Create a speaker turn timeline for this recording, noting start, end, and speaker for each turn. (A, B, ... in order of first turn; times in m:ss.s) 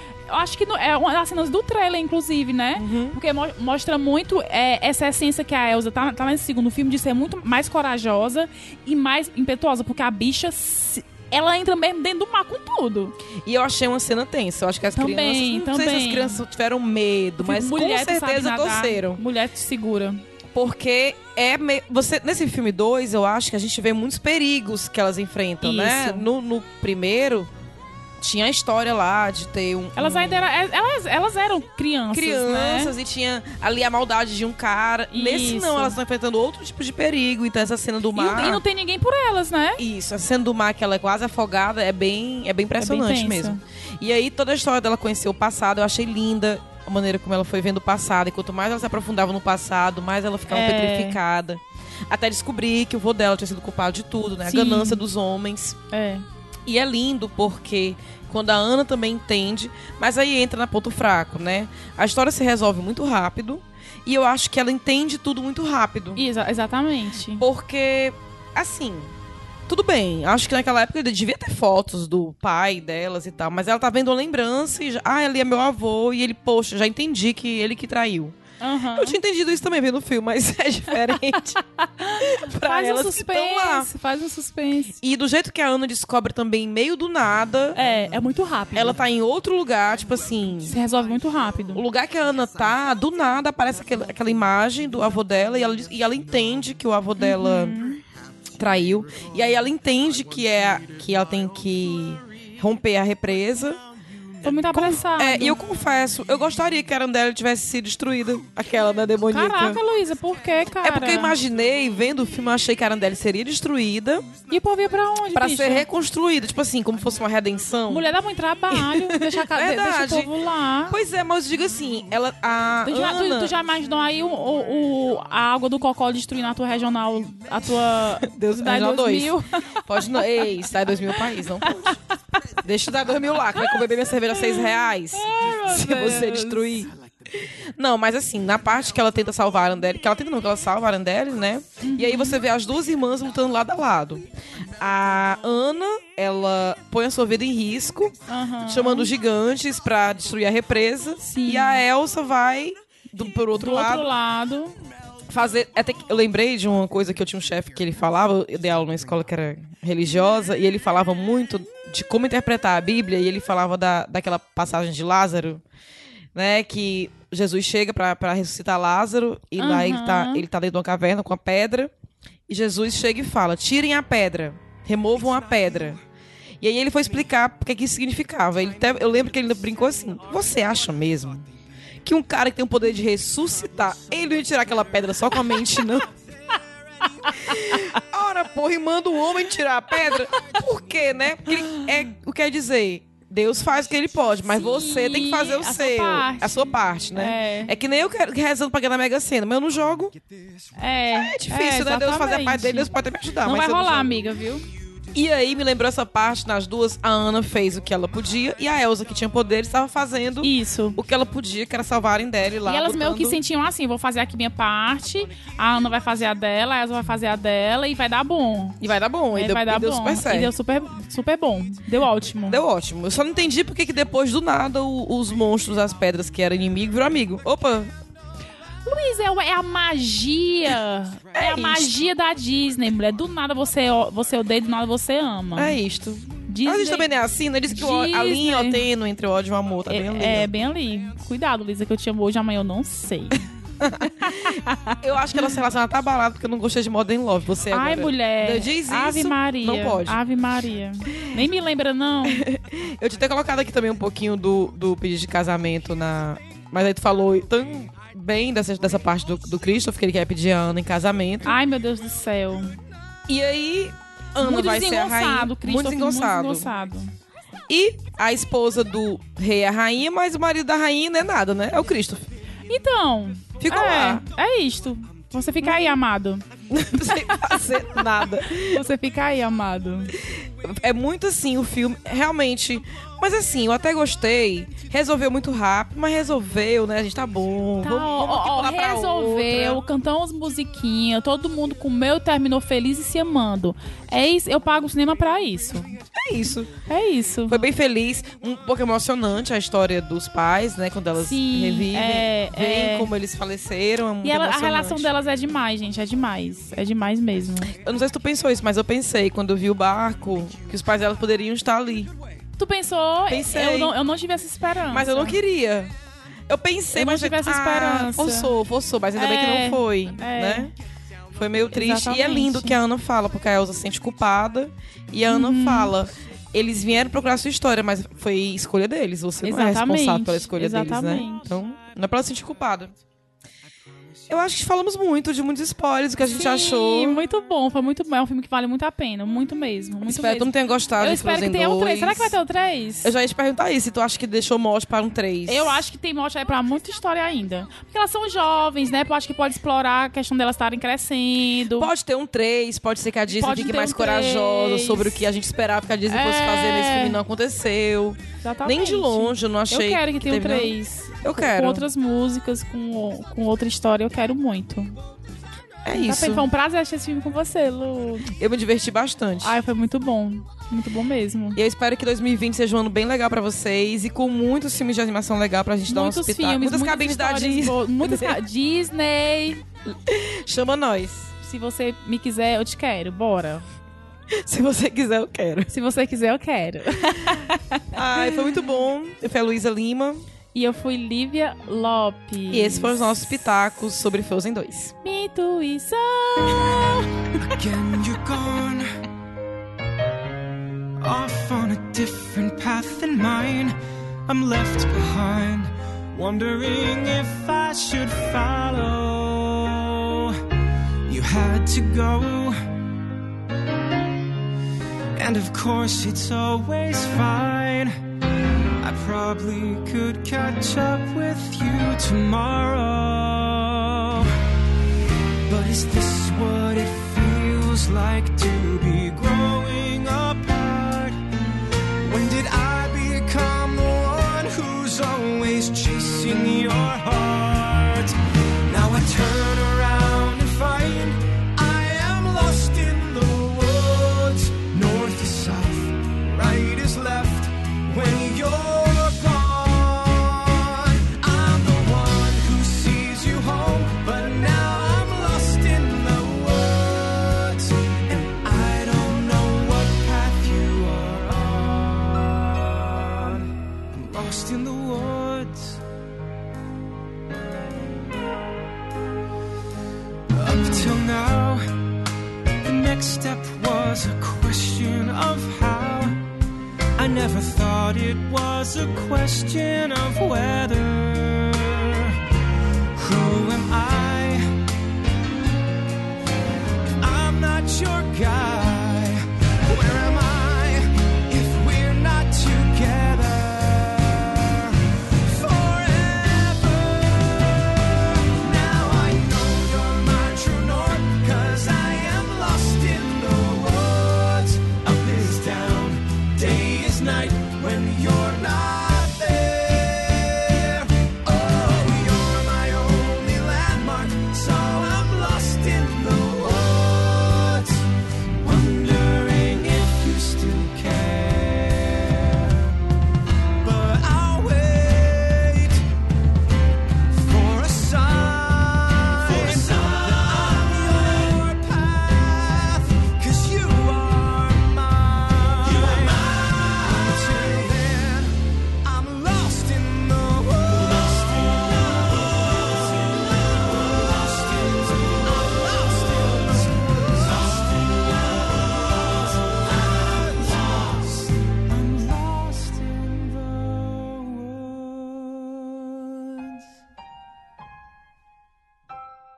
0:00.3-0:13.1 A
0:02.8-0:03.2 B
0:13.4-0:19.2 B
0:15.0-0:16.4 A
0:17.4-0:20.2 A
0:20.5-0:27.5 B
0:25.6-0:26.3 A
0:28.2-0:30.5 B
0:30.0-0:32.9 A
0:32.1-0:38.6 B
0:35.1-0:36.0 A
0:38.1-0:39.8 A
0:39.8-0:55.8 B
0:42.8-0:43.6 A
0:50.5-0:51.2 A
0:54.4-0:55.0 A
0:55.9-0:56.2 A
0:56.6-1:06.2 B
1:06.2-1:07.4 A
1:07.4-1:09.1 B
1:09.7-1:18.4 B
1:18.6-1:19.2 A
1:18.9-1:21.6 B
1:21.8-1:25.0 A
1:22.2-1:23.9 B
1:25.0-1:27.8 B
1:27.7-1:29.0 A
1:28.7-1:30.8 B
1:30.6-1:31.8 A
1:31.7-1:37.8 B
1:37.2-1:38.0 A
1:38.6-1:43.8 B
1:44.4-1:45.6 A
1:44.7-1:49.8 B
1:49.3-1:51.4 A
1:50.8-1:54.3 B
1:54.5-1:55.8 A
1:55.3-1:58.1 B
1:57.9-2:01.0 A
1:58.7-2:00.3 B
2:00.9-2:03.5 B
2:02.8-2:10.3 A
2:08.2-2:12.0 B
2:11.6-2:12.0 A
2:12.6-2:24.2 B
2:14.3-2:16.8 A
2:21.8-2:22.4 A
2:24.8-2:34.1 B
2:28.3-2:29.1 A
2:31.2-2:31.8 A
2:33.6-2:34.7 A
2:35.3-2:45.6 B
2:46.3-2:51.9 B
2:49.6-2:50.4 A
2:52.5-2:56.0 B
2:56.6-3:01.5 B
3:02.0-3:06.1 B
3:07.4-3:20.2 B
3:14.5-3:17.7 A
3:20.8-3:22.9 A
3:21.1-3:24.2 B
3:23.4-3:24.6 A
3:25.1-3:33.4 B
3:30.4-3:31.0 A
3:32.6-3:38.8 A
3:38.8-3:40.5 B
3:39.3-3:42.6 A
3:42.5-3:47.9 B
3:48.8-3:55.8 A
3:51.3-3:52.0 B
3:55.5-4:00.5 B
3:56.5-3:57.1 A
3:57.7-3:58.8 A
3:59.9-4:03.4 A
4:03.8-4:10.2 B
4:04.2-4:05.6 A
4:07.7-4:12.4 A
4:12.2-4:21.6 B
4:21.4-4:22.8 A
4:23.3-4:26.7 B
4:24.4-4:27.1 A
4:27.7-4:32.3 B
4:32.7-4:37.6 A
4:33.6-4:34.2 B
4:36.7-4:38.8 B
4:38.5-4:40.2 A
4:40.2-4:49.8 B
4:47.8-4:56.0 A
4:56.1-4:56.7 B
4:56.9-4:57.6 A
4:57.5-5:05.1 B
5:01.2-5:03.1 A
5:04.2-5:07.7 A
5:07.7-5:12.1 B
5:12.6-5:15.4 A
5:13.3-5:14.0 B
5:14.9-5:15.9 B
5:16.5-5:20.7 B
5:16.9-5:18.5 A
5:19.2-5:20.7 A
5:21.3-5:32.9 B
5:21.7-5:22.8 A
5:25.3-5:25.9 A
5:29.4-5:31.5 A
5:34.3-5:37.2 B
5:36.3-5:43.1 A
5:40.0-5:42.4 B
5:43.0-5:45.8 B
5:45.4-5:51.9 A
5:51.7-6:01.8 B
5:53.3-5:55.2 A
5:56.1-5:57.2 A
5:58.4-6:04.9 A
6:05.8-6:06.5 B
6:05.9-6:08.3 A
6:08.3-6:09.6 B
6:09.4-6:11.6 A
6:11.6-6:18.4 B
6:15.9-6:19.6 A
6:19.9-6:21.3 B
6:21.4-6:23.6 A
6:24.3-6:25.7 B
6:25.7-6:28.5 A
6:27.9-6:30.2 B
6:30.5-6:33.2 A
6:32.5-6:34.9 B
6:35.0-6:37.3 A
6:37.6-6:38.8 C
6:41.0-6:43.7 C
6:44.3-6:50.4 C
6:51.1-6:52.6 C
6:55.2-6:57.9 C
6:58.8-7:04.3 C
7:05.5-7:11.2 C
7:12.0-7:18.1 C
7:18.7-7:45.8 C
7:50.3-7:51.7 C
7:52.6-7:56.2 C
7:57.0-8:02.2 C
8:02.9-8:04.4 C
8:07.0-8:37.8 C
8:38.4-8:42.5 C
8:43.6-8:45.8 C
8:47.1-9:16.6 C